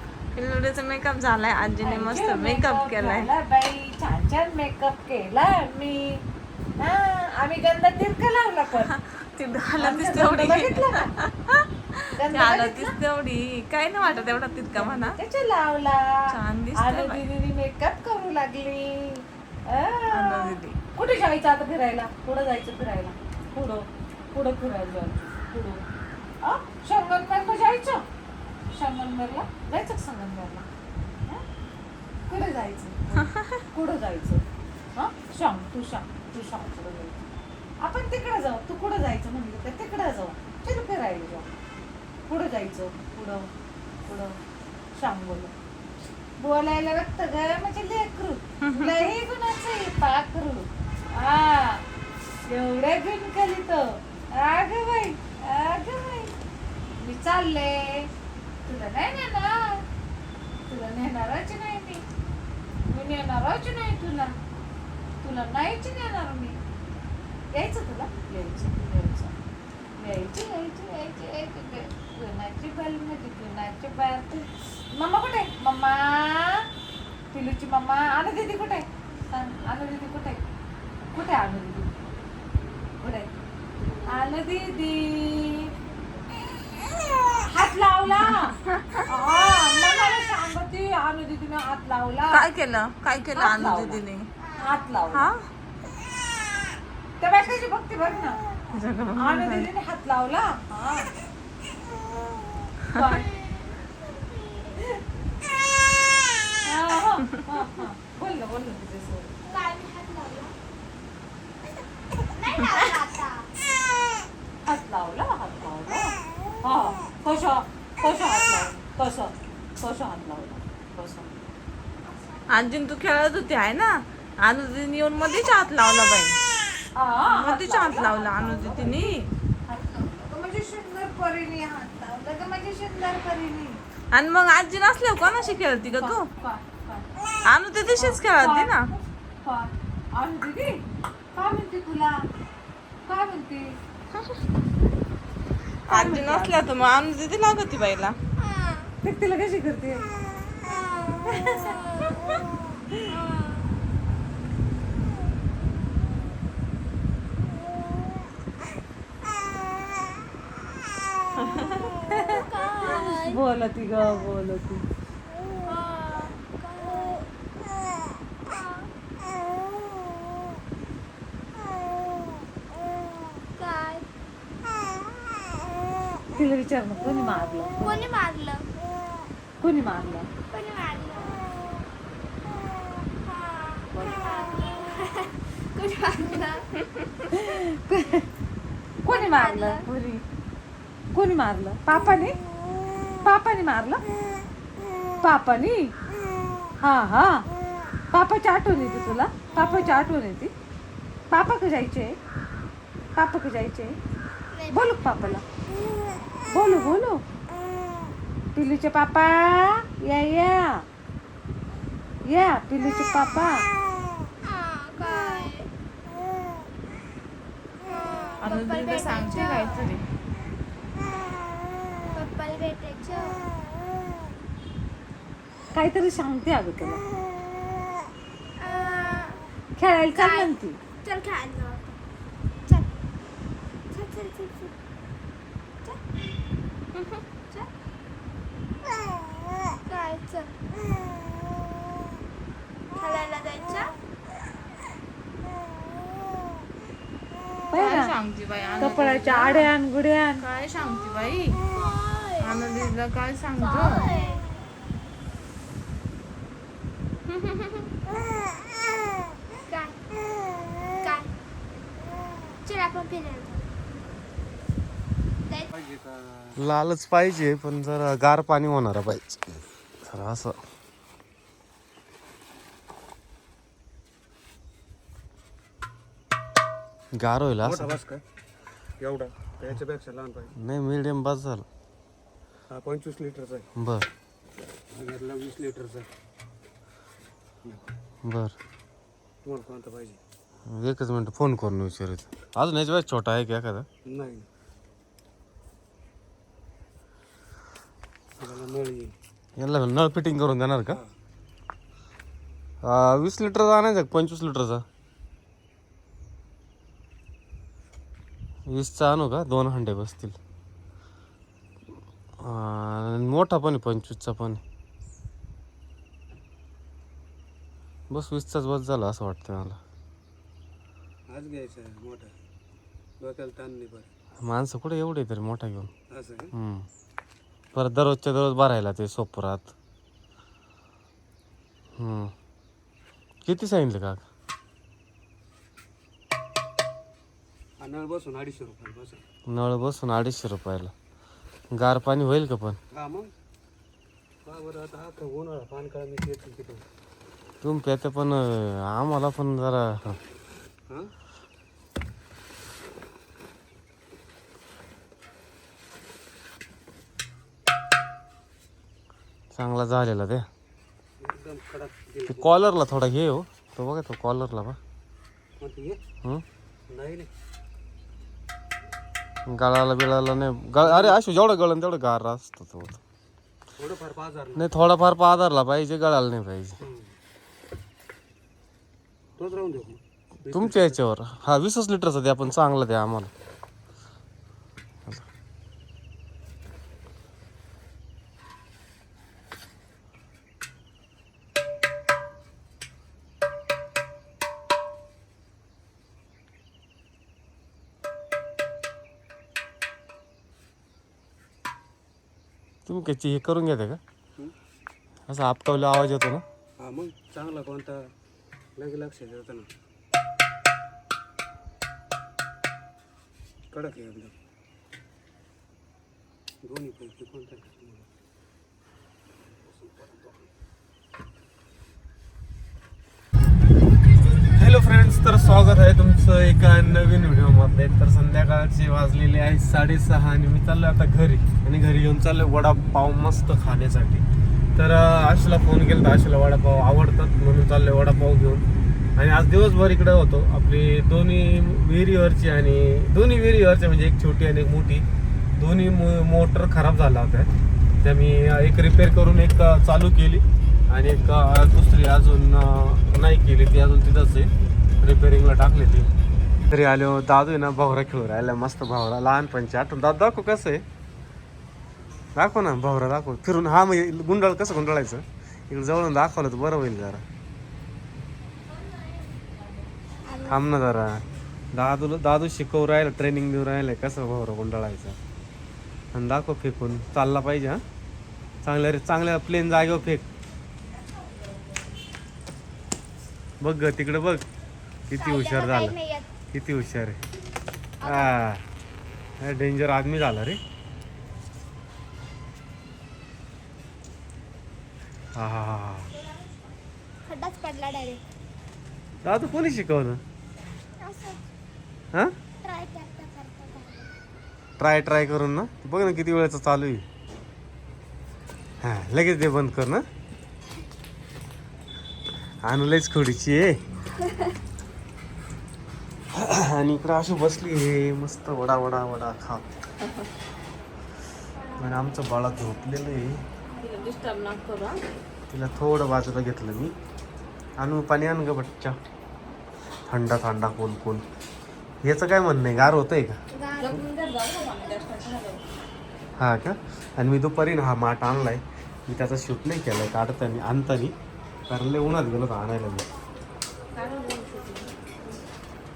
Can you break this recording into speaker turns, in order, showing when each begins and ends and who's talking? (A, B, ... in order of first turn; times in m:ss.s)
0:00.4-0:03.3 A
0:01.8-0:06.2 B
0:06.8-0:08.9 B
0:08.9-0:15.2 A
0:09.8-0:11.2 B
0:12.2-0:13.0 B
0:14.7-0:25.8 B
0:16.3-0:17.2 A
0:20.1-0:20.8 A
0:26.4-0:28.0 B
0:28.7-0:30.7 B
0:32.3-0:34.4 B
0:33.2-0:33.6 A
0:35.0-0:37.2 B
0:37.8-0:41.5 B
0:42.3-0:43.5 B
0:44.1-0:44.4 B
0:45.0-0:45.5 B
0:46.4-0:51.8 B
0:48.7-0:49.1 A
0:52.5-0:56.3 B
0:57.0-0:58.1 B
0:58.6-0:59.8 B
1:00.7-1:02.0 B
1:02.9-1:04.3 B
1:05.2-1:06.6 B
1:07.6-1:09.3 B
1:10.0-1:16.7 B
1:17.3-1:20.4 B
1:21.1-1:21.9 B
1:23.0-1:23.3 B
1:24.1-1:25.7 B
1:27.3-1:32.5 B
1:28.2-1:29.0 A
1:32.3-1:34.3 A
1:33.4-1:34.0 B
1:34.6-1:35.3 B
1:35.1-1:35.4 A
1:37.2-1:38.4 B
1:38.7-1:39.7 A
1:39.2-1:41.1 B
1:42.9-1:43.4 B
1:46.6-1:49.3 B
1:49.5-1:50.5 C
1:52.3-1:53.5 C
1:54.7-2:01.4 B
2:02.5-2:06.4 A
2:07.0-2:09.1 B
2:07.3-2:09.3 A
2:09.7-2:13.8 B
2:14.1-2:16.3 A
2:15.8-2:17.1 B
2:17.4-2:18.8 A
2:17.9-2:20.8 B
2:21.3-2:22.2 B
2:23.1-2:23.8 B
2:25.9-2:28.2 A
2:25.9-2:26.8 B
2:29.0-2:30.0 B
2:31.2-2:32.3 B
2:33.1-2:33.8 C
2:41.5-2:41.8 A
2:42.1-2:43.4 C
2:42.9-2:44.8 B
2:45.6-2:47.3 C
2:48.5-2:48.9 C
2:53.6-2:54.1 C
2:56.4-2:58.0 B
2:57.8-2:58.7 C
2:59.6-3:00.3 B
3:00.5-3:01.5 C
3:03.3-3:06.8 C
3:04.0-3:04.3 B
3:07.3-3:08.2 B
3:09.0-3:09.9 B
3:09.1-3:09.8 C
3:09.9-3:10.2 A
3:11.1-3:12.4 B
3:13.2-3:14.0 B
3:15.2-3:15.9 B
3:16.8-3:17.4 B
3:18.1-3:20.5 B
3:21.3-3:22.2 B
3:23.2-3:24.0 B
3:24.5-3:25.4 C
3:24.7-3:25.4 B
3:26.5-3:27.2 B
3:28.6-3:30.8 B
3:32.3-3:33.7 B
3:34.4-3:35.7 C
3:37.9-3:39.9 C
3:38.4-3:40.0 A
3:42.1-3:43.5 C
3:45.7-3:47.0 B
3:48.6-3:49.4 C
3:49.8-3:50.8 B
3:50.2-3:50.5 C
3:51.0-3:51.8 C
3:53.9-3:54.7 C
3:57.0-3:57.7 C
3:59.8-4:00.7 C
4:03.0-4:04.0 C
4:07.7-4:08.1 B
4:07.8-4:09.7 A
4:08.8-4:10.4 B
4:10.4-4:11.6 A
4:11.7-4:12.6 C
4:12.4-4:14.1 A
4:13.6-4:14.5 C
4:17.5-4:17.8 C
4:19.7-4:20.0 C
4:21.0-4:21.3 C
4:22.6-4:23.6 C
4:25.7-4:26.6 D
4:26.6-4:30.6 E
4:37.1-4:37.9 E
4:37.6-4:38.2 D
4:39.0-4:40.5 D
4:40.6-4:41.7 E
4:42.7-4:43.7 D
4:43.8-4:44.1 E
4:44.9-4:46.1 D
4:48.2-4:48.6 E
4:49.4-4:50.2 D
4:50.7-4:53.9 E
4:54.1-4:54.5 D
4:58.4-4:59.1 D
4:59.6-5:01.0 E
5:02.8-5:04.8 E
5:08.7-5:10.4 E
5:12.4-5:14.6 E
5:18.1-5:19.8 E
5:21.3-5:22.3 D
5:23.2-5:24.1 D
5:24.4-5:25.9 E
5:26.1-5:26.5 D
5:26.5-5:26.9 E
5:27.8-5:29.7 E
5:32.0-5:32.3 E
5:33.4-5:34.2 E
5:37.8-5:39.2 D
5:39.5-5:40.9 E
5:41.7-5:42.8 E
5:42.9-5:43.3 D
5:44.5-5:46.8 D
5:47.6-5:50.2 E
5:59.5-6:00.5 E
6:01.2-6:02.5 D
6:02.3-6:04.8 E
6:05.6-6:06.0 D
6:06.9-6:07.3 D
6:09.5-6:13.0 E
6:10.8-6:11.2 D
6:13.8-6:14.8 D
6:14.6-6:16.8 E
6:16.8-6:17.2 D
6:19.4-6:21.0 D
6:20.5-6:23.3 E
6:42.9-6:44.0 E
6:45.3-6:46.4 E
6:46.8-6:48.0 D
6:48.8-6:49.7 D
6:53.7-6:54.3 D
6:56.6-6:58.1 D
6:59.6-7:00.5 D
7:04.4-7:25.1 E
7:25.6-7:27.5 E
7:28.0-7:36.1 E
7:36.7-7:40.8 E
7:42.4-7:47.2 E
7:50.2-7:50.6 C
7:50.4-7:51.2 E
7:51.7-7:55.2 E
7:56.1-7:57.8 E
7:58.6-8:00.3 E
8:03.6-8:04.4 E
8:05.1-8:06.0 E
8:05.2-8:06.3 C
8:06.5-8:07.2 E
8:08.0-8:08.4 C
8:08.0-8:08.6 E
8:09.4-8:10.6 E
8:15.4-8:16.1 E
8:17.3-8:18.2 C
8:19.2-8:20.2 E
8:21.0-8:21.4 C
8:22.6-8:24.1 C
8:24.8-8:27.0 E
8:28.8-8:30.0 E
8:32.6-8:33.8 E
8:36.3-8:39.6 E
8:41.6-8:41.9 C
8:41.8-8:43.4 E
8:43.6-8:44.2 C
8:43.8-8:45.0 A
8:45.5-8:47.0 E
8:47.8-8:49.0 E
8:50.1-8:51.2 E
8:52.0-8:53.4 E
8:53.6-8:54.0 C
8:53.8-8:55.6 A
8:56.4-9:01.2 E
9:01.7-9:03.1 E
9:03.9-9:05.2 A